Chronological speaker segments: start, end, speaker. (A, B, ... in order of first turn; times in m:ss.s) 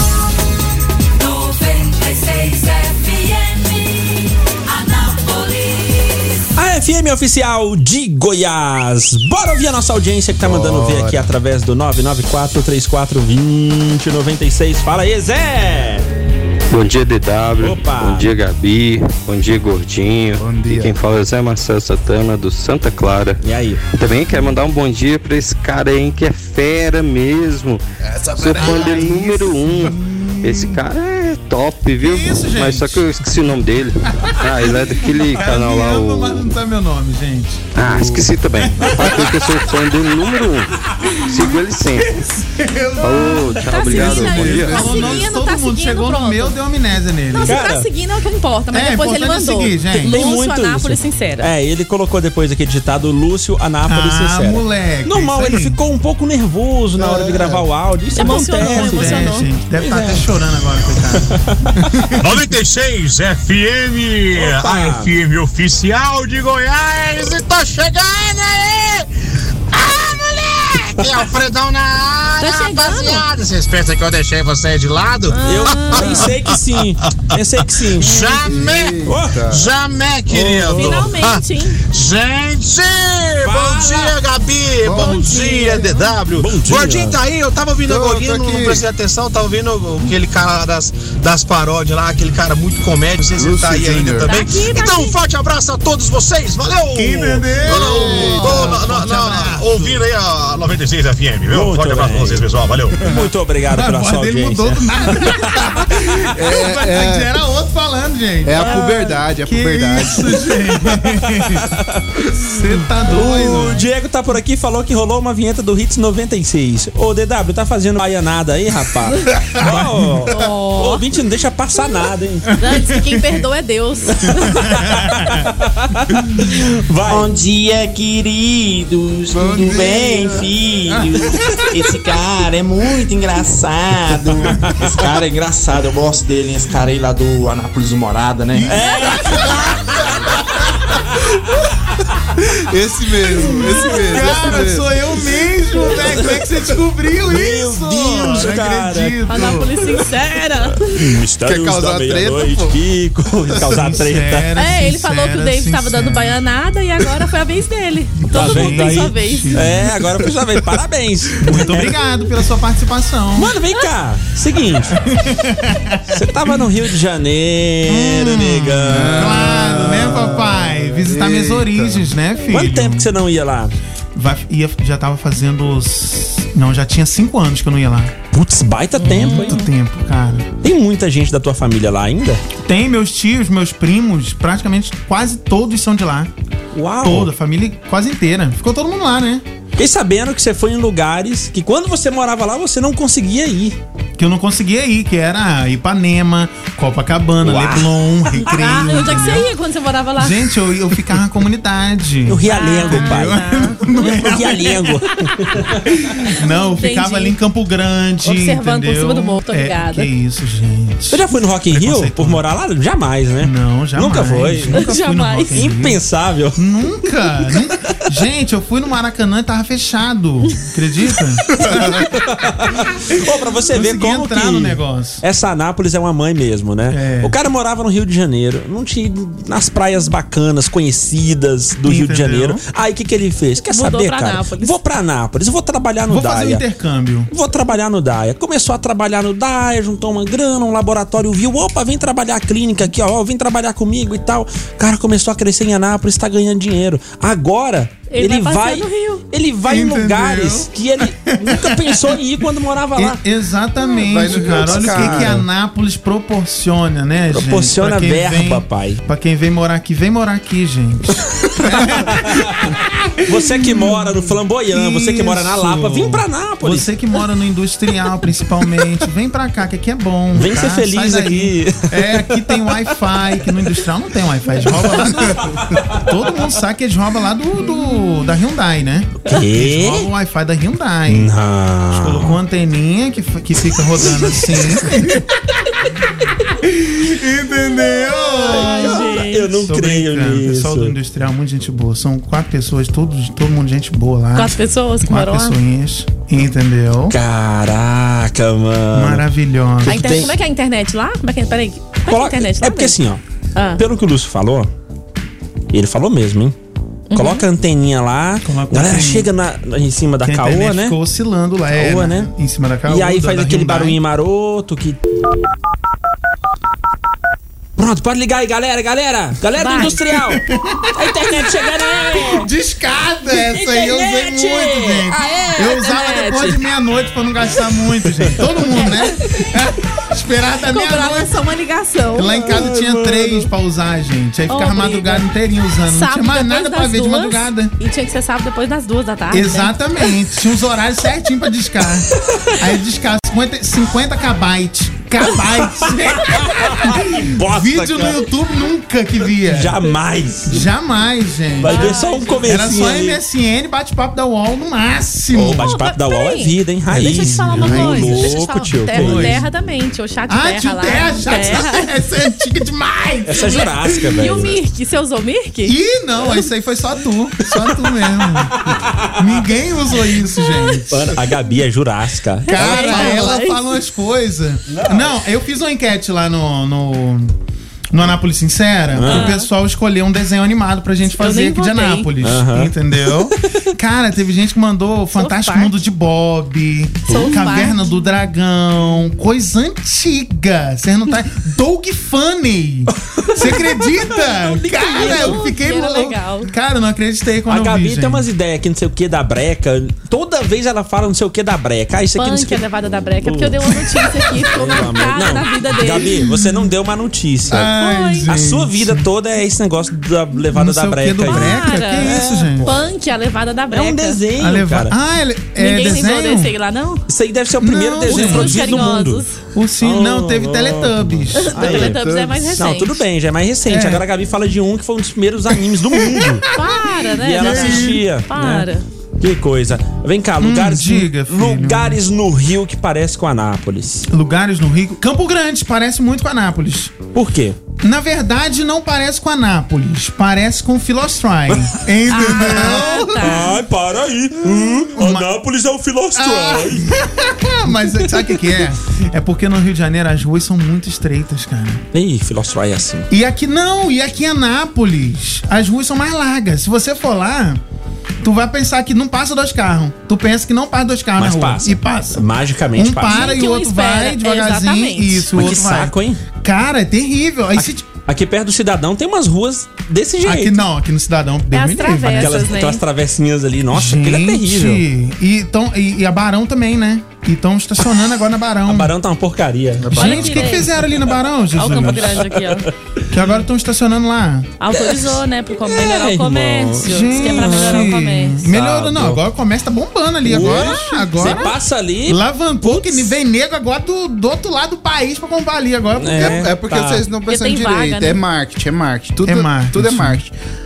0:01.2-0:03.6 A
0:05.1-0:05.6 A
0:06.6-0:16.1 B
0:10.4-0:11.3 C
0:16.7-0:23.4 D
0:17.6-0:18.4 B
0:20.4-0:21.0 C
0:23.4-0:23.8 B
0:23.9-0:27.8 D
0:28.1-0:28.9 C
0:28.4-0:29.9 D
0:28.6-0:30.8 E
0:30.4-0:36.4 D
0:32.0-0:33.5 E
0:34.2-0:39.9 E
0:35.0-0:35.6 F
0:37.8-0:40.7 D
0:38.8-0:39.3 B
0:41.0-0:47.6 E
0:41.2-0:42.1 D
0:43.0-0:44.6 D
0:43.1-0:46.6 G
0:43.8-0:45.3 C
0:44.2-0:44.5 B
0:47.4-0:51.5 G
0:47.4-0:47.9 B
0:48.7-0:50.2 E
0:50.0-1:00.3 B
0:53.9-0:55.8 E
0:57.0-0:57.7 C
0:58.2-0:59.5 G
0:58.2-1:02.4 E
1:01.2-1:01.6 B
1:02.2-1:09.1 H
1:04.4-1:05.1 B
1:09.7-1:16.6 H
1:11.0-1:11.3 B
1:12.4-1:13.2 G
1:15.3-1:16.3 G
1:15.4-1:18.4 B
1:17.1-1:17.4 H
1:18.0-1:43.1 H
1:18.0-1:19.7 C
1:19.0-1:19.4 B
1:20.3-1:21.1 B
1:20.7-1:21.8 G
1:23.4-1:24.2 B
1:24.8-1:26.0 C
1:25.1-1:25.8 G
1:26.3-1:27.2 B
1:27.8-1:28.8 C
1:33.4-1:34.4 C
1:34.3-1:35.2 G
1:37.0-1:40.0 E
1:37.6-1:38.8 C
1:41.5-1:42.5 B
1:43.0-1:46.1 B
1:43.7-1:51.6 E
1:46.3-1:47.3 C
1:48.4-1:50.5 C
1:48.7-1:49.1 G
1:50.9-1:52.0 B
1:52.4-1:53.9 E
1:53.0-2:02.6 B
1:59.6-2:00.1 E
2:00.3-2:01.0 G
2:02.6-2:04.7 G
2:02.6-2:03.2 E
2:04.1-2:07.3 B
2:04.5-2:05.5 E
2:07.1-2:18.8 F
2:09.3-2:11.4 C
2:18.6-2:19.6 E
2:18.6-2:19.9 B
2:19.3-2:20.2 C
2:22.5-2:24.9 C
2:23.4-2:29.8 E
2:27.3-2:29.2 B
2:29.2-2:31.0 G
2:31.0-2:34.5 B
2:31.0-2:32.8 C
2:33.5-2:33.8 C
2:33.7-2:36.4 E
2:34.6-2:39.6 G
2:38.3-2:40.0 E
2:38.3-2:41.9 B
2:41.4-2:43.6 E
2:43.4-2:45.0 B
2:44.9-2:46.2 E
2:46.1-2:49.5 B
2:47.9-2:53.1 E
2:48.9-2:52.1 C
2:52.4-2:53.7 B
2:54.1-2:58.1 E
2:58.3-2:59.6 B
2:59.0-2:59.7 G
2:59.1-3:00.5 E
3:00.6-3:02.4 B
3:02.6-3:06.3 E
3:06.7-3:07.3 B
3:07.0-3:09.4 E
3:09.8-3:13.8 B
3:14.2-3:19.5 E
3:17.4-3:18.0 B
3:18.4-3:20.5 G
3:20.2-3:24.8 E
3:22.2-3:23.5 B
3:22.5-3:24.4 G
3:24.0-3:25.7 B
3:26.0-3:32.4 E
3:26.2-3:27.4 G
3:28.2-3:30.1 G
3:31.1-3:34.9 B
3:33.4-3:36.0 E
3:34.7-3:35.6 G
3:35.5-3:36.6 B
3:36.6-3:42.1 E
3:41.5-3:56.6 B
3:43.7-3:45.2 E
3:46.9-3:47.4 E
3:51.8-3:52.6 E
3:53.6-3:54.8 G
3:56.1-3:57.3 E
3:57.3-4:13.2 B
4:08.1-4:09.2 G
4:09.7-4:12.2 E
4:13.0-4:24.2 E
4:14.0-4:15.4 C
4:14.6-4:15.4 B
4:17.3-4:19.0 B
4:21.7-4:26.9 B
4:24.7-4:41.3 E
4:30.4-4:32.4 B
4:34.9-4:35.9 B
4:39.2-4:40.1 B
4:41.1-4:42.4 B
4:41.9-4:45.2 E
4:44.0-4:44.7 B
4:46.6-4:57.2 E
4:48.3-4:49.5 G
4:48.4-4:50.9 B
4:54.4-4:55.6 G
4:57.1-4:59.2 B
4:58.9-5:00.3 E
4:59.8-5:00.3 B
4:59.8-5:03.0 G
5:02.1-5:03.2 B
5:03.6-5:03.8 G
5:03.8-5:04.7 B
5:05.7-5:06.6 B
5:07.1-5:07.4 G
5:07.1-5:11.0 B
5:08.4-5:09.3 E
5:10.2-5:14.0 E
5:11.7-5:12.3 B
5:12.9-5:15.0 B
5:17.8-5:20.4 B
5:19.6-5:20.0 G
5:20.1-5:21.0 E
5:21.0-5:22.5 B
5:22.1-5:31.4 E
5:23.3-5:25.7 B
5:25.4-5:26.6 G
5:30.7-5:32.5 G
5:32.1-5:37.7 E
5:32.2-5:33.5 B
5:34.5-5:35.2 G
5:35.9-5:39.8 G
5:39.3-5:49.8 E
5:45.8-5:48.3 B
5:49.4-5:50.7 B
5:50.5-5:55.7 E
5:51.6-5:53.2 B
5:51.6-5:52.6 G
5:55.3-5:59.4 B
5:55.6-6:01.9 G
5:56.9-5:58.3 E
5:58.9-5:59.5 E
6:00.3-6:04.3 E
6:03.3-6:04.6 B
6:03.4-6:05.8 G
6:05.6-6:08.6 E
6:08.5-6:09.1 B
6:09.2-6:11.2 E
6:10.9-6:13.4 B
6:12.5-6:13.6 G
6:12.5-6:17.3 E
6:14.7-6:15.1 B
6:17.9-6:38.2 E
6:18.9-6:19.4 B
6:19.1-6:19.5 G
6:21.1-6:22.1 G
6:22.2-6:22.7 B
6:25.1-6:25.8 G
6:27.1-6:28.1 G
6:27.1-6:27.5 B
6:33.1-6:33.8 B
6:33.4-6:33.8 G
6:34.4-6:35.4 B
6:34.6-6:36.5 G
6:37.5-6:42.6 B
6:42.2-6:46.1 G
6:43.2-6:43.8 B
6:44.4-6:52.8 B
6:47.5-6:49.1 E
6:47.8-6:48.3 G
6:50.5-6:52.7 E
6:51.2-6:54.2 G
6:53.7-6:54.9 B
6:54.4-6:56.5 E
6:55.6-6:57.1 G
6:57.1-6:59.2 B
6:57.6-6:59.0 E
6:58.1-6:59.3 G
6:59.5-7:01.9 E
6:59.8-7:06.5 B
7:01.3-7:03.0 G
7:01.6-7:02.5 C
7:03.7-7:04.0 E
7:05.9-7:06.8 E
7:06.5-7:08.8 G
7:07.2-7:08.7 B
7:07.4-7:08.0 E
7:09.2-7:14.1 B
7:10.4-7:12.0 E
7:14.1-7:17.1 E
7:17.1-7:17.6 B
7:17.8-7:23.4 E
7:22.1-7:23.5 G
7:22.3-7:26.9 B
7:24.9-7:25.3 E
7:26.1-7:31.8 E
7:31.9-7:33.1 B
7:33.1-7:37.6 E
7:38.2-7:42.2 E
7:41.2-7:43.3 B
7:42.8-7:47.9 E
7:43.1-7:45.3 G
7:45.3-7:46.2 B
7:47.6-7:50.6 B
7:50.2-7:52.4 E
7:51.5-7:52.8 G
7:52.0-7:54.8 B
7:53.7-7:58.9 E
7:58.7-8:00.4 B
7:59.8-8:00.2 C
7:59.9-8:02.3 E
8:00.0-8:00.9 G
8:01.5-8:02.7 G
8:01.7-8:02.7 B
8:03.1-8:04.6 E
8:04.6-8:08.4 G
8:04.7-8:08.0 B
8:06.8-8:16.5 E
8:08.5-8:09.2 B
8:10.2-8:13.1 B
8:10.8-8:11.3 G
8:16.0-8:17.0 B
8:16.2-8:20.3 C
8:17.3-8:18.2 G
8:19.2-8:20.2 E